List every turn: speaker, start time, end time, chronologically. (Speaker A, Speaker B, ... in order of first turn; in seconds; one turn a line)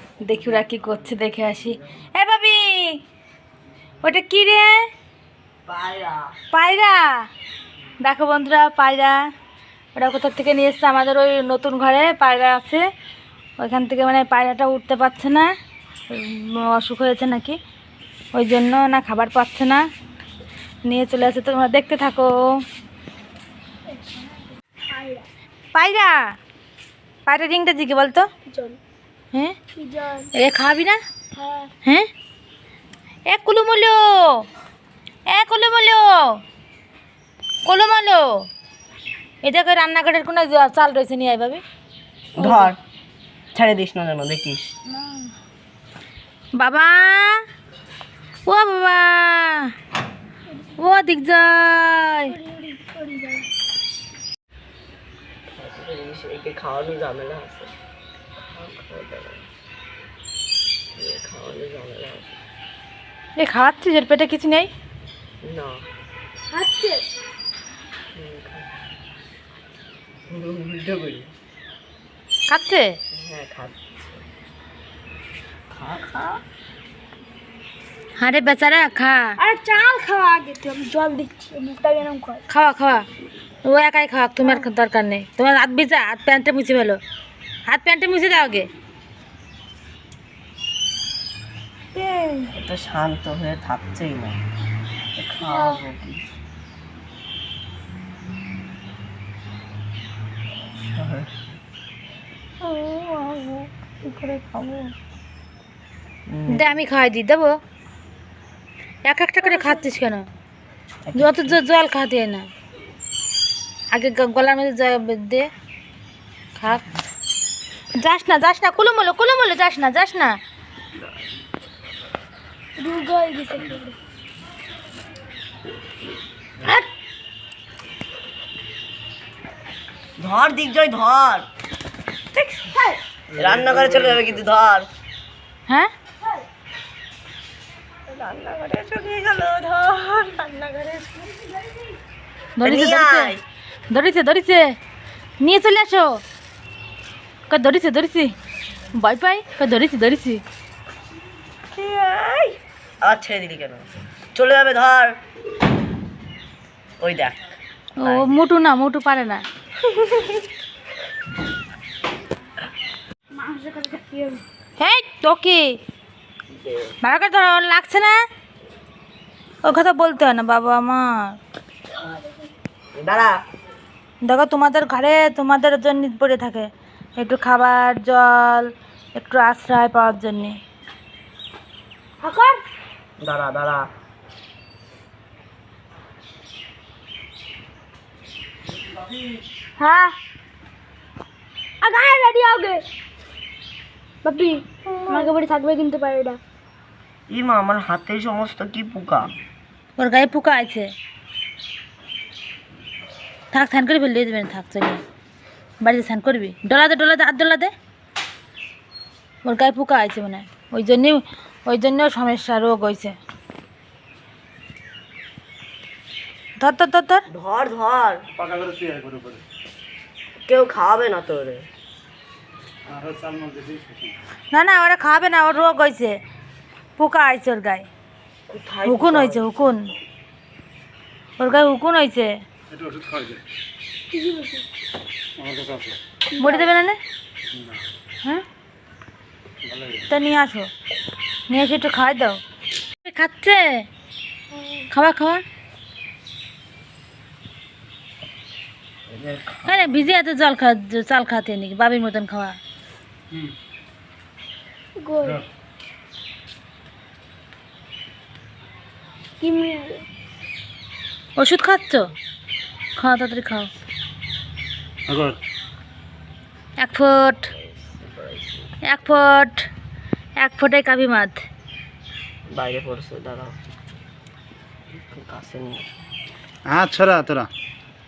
Speaker A: 0.2-3.0
Speaker A: 4.0-4.8
Speaker B: 5.7-6.4
Speaker A: 6.5-7.3
Speaker A: 8.0-9.2
Speaker A: 9.9-12.8
Speaker A: 13.6-15.5
Speaker A: 16.1-17.6
Speaker A: 18.3-19.8
Speaker A: 20.9-22.3
Speaker C: 23.9-25.3
Speaker A: 25.7-26.4
Speaker A: 27.3-28.3
Speaker C: 28.5-28.8
Speaker C: 29.8-30.3
Speaker A: 30.3-31.0
Speaker C: 31.4-31.7
Speaker A: 33.3-34.5
Speaker A: 35.3-36.4
Speaker A: 37.6-38.5
Speaker A: 39.4-41.6
Speaker B: 42.4-42.8
Speaker A: 42.4-42.7
Speaker B: 43.5-44.7
Speaker A: 46.6-47.4
Speaker A: 48.5-49.7
Speaker A: 50.8-52.4
Speaker C: 52.3-53.5
Speaker B: 55.5-57.7
Speaker B: 58.4-59.5
Speaker B: 61.0-62.3
Speaker A: 63.4-64.7
Speaker B: 65.4-65.8
Speaker C: 66.5-67.1
Speaker B: 68.2-68.7
Speaker B: 70.3-71.3
Speaker A: 72.5-72.9
Speaker B: 73.1-74.2
Speaker B: 75.7-76.4
Speaker A: 78.2-79.4
Speaker C: 79.4-82.4
Speaker A: 82.5-83.0
Speaker A: 83.6-87.0
Speaker A: 87.7-88.7
Speaker A: 92.0-92.4
Speaker B: 92.5-94.4
Speaker B: 95.2-96.2
Speaker B: 100.9-101.3
Speaker A: 103.0-103.4
Speaker A: 104.2-104.5
Speaker B: 106.3-106.8
Speaker A: 106.5-107.5
Speaker A: 109.0-110.2
Speaker B: 111.1-111.6
Speaker A: 111.2-112.5
Speaker A: 113.9-115.5
Speaker A: 116.6-116.9
Speaker A: 118.0-120.4
Speaker C: 122.8-124.0
Speaker B: 130.2-131.5
Speaker B: 132.3-132.8
Speaker B: 133.4-134.9
Speaker D: 133.5-134.1
Speaker B: 138.1-141.4
Speaker A: 142.6-143.3
Speaker B: 142.6-143.4
Speaker A: 143.9-144.7
Speaker A: 145.4-146.2
Speaker A: 147.5-148.3
Speaker A: 148.9-150.4
Speaker B: 151.8-155.2
Speaker B: 157.0-157.4
Speaker A: 158.0-159.4
Speaker B: 158.0-158.4
Speaker B: 159.8-160.4
Speaker C: 163.3-164.4
Speaker A: 164.8-165.8
Speaker B: 166.6-166.9
Speaker A: 167.0-168.2
Speaker A: 169.6-171.4
Speaker C: 172.0-172.4
Speaker B: 172.9-173.3
Speaker A: 174.2-180.6
Speaker C: 182.2-182.6
Speaker B: 183.2-183.9
Speaker C: 189.8-190.2
Speaker C: 191.8-192.8
Speaker C: 194.2-196.4
Speaker B: 197.3-199.3
Speaker A: 200.0-200.9
Speaker A: 203.5-205.0
Speaker A: 205.8-207.7
Speaker A: 209.4-213.2
Speaker A: 216.6-217.2
Speaker B: 217.3-218.2
Speaker D: 218.4-219.4
Speaker B: 220.5-221.7
Speaker D: 222.9-224.1
Speaker A: 224.5-226.2
Speaker A: 227.0-227.9
Speaker B: 228.5-229.7
Speaker A: 228.8-229.9
Speaker A: 231.4-232.3
Speaker D: 232.8-233.4
Speaker C: 234.1-234.7
Speaker D: 235.4-236.0
Speaker C: 236.3-236.7
Speaker A: 236.4-237.0
Speaker A: 240.1-240.7
Speaker A: 241.5-242.4
Speaker A: 243.1-243.9
Speaker A: 244.9-245.4
Speaker B: 249.1-250.1
Speaker A: 249.7-252.6
Speaker C: 255.0-255.4
Speaker C: 259.4-260.1
Speaker A: 261.4-262.1
Speaker A: 263.0-263.7
Speaker D: 265.1-265.4
Speaker A: 266.8-267.5
Speaker B: 267.5-268.7
Speaker A: 268.9-269.7
Speaker A: 270.4-271.4
Speaker B: 272.5-273.6
Speaker B: 275.1-276.0
Speaker D: 276.7-277.5